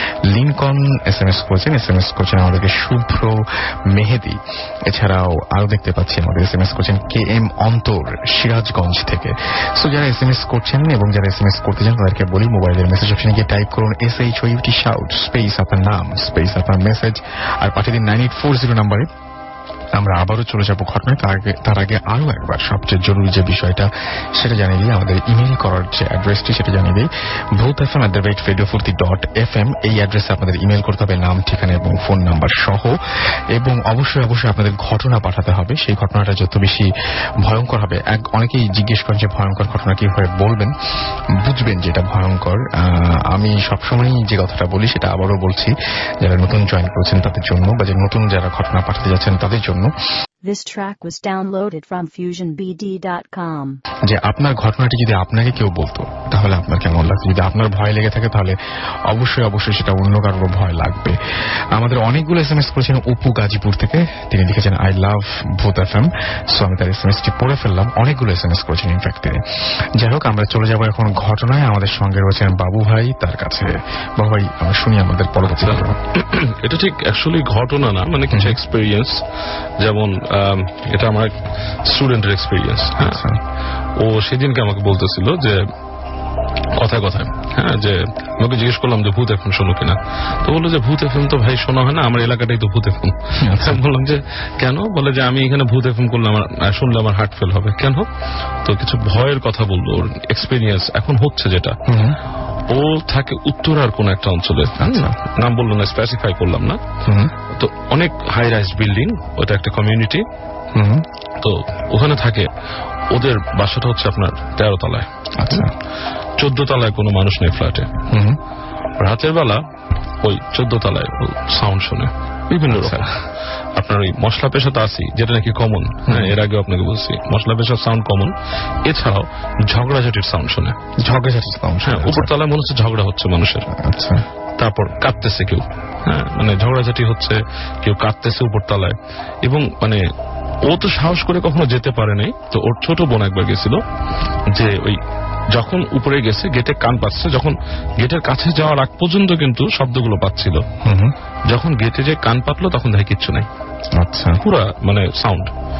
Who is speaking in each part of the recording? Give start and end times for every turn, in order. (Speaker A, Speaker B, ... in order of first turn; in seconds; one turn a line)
Speaker A: 0.3-19.1
Speaker A: 20.0-32.9
Speaker A: 33.5-36.9
Speaker A: 37.4-40.7
Speaker A: 41.4-49.9
Speaker B: 50.4-53.8
Speaker A: 54.1-58.6
Speaker A: 59.1-61.1
Speaker A: 61.7-69.4
Speaker A: 70.0-76.0
Speaker C: 75.4-79.2
Speaker C: 79.8-81.3
Speaker C: 81.9-83.2
Speaker A: 83.0-83.4
Speaker C: 84.0-85.6
Speaker C: 86.8-98.1
Speaker A: 93.4-93.8
Speaker C: 98.6-101.8
Speaker A: 101.9-102.2
Speaker C: 102.7-106.8
Speaker A: 104.8-105.1
Speaker A: 107.1-107.3
Speaker C: 107.5-110.2
Speaker A: 110.7-111.0
Speaker C: 111.4-112.5
Speaker C: 113.1-115.6
Speaker A: 115.4-115.7
Speaker C: 116.4-117.9
Speaker A: 118.1-118.4
Speaker C: 119.0-119.6
Speaker C: 120.2-123.1
Speaker A: 122.7-123.1
Speaker C: 123.7-128.3
Speaker A: 126.1-126.3
Speaker C: 128.8-130.8
Speaker A: 131.0-132.3
Speaker C: 131.8-133.7
Speaker A: 133.8-134.2
Speaker C: 134.6-138.9
Speaker C: 139.4-140.0
Speaker C: 140.7-143.8
Speaker C: 144.5-145.0
Speaker C: 145.6-150.6
Speaker A: 150.8-151.1
Speaker C: 151.5-153.5
Speaker A: 154.0-154.4
Speaker C: 154.4-155.5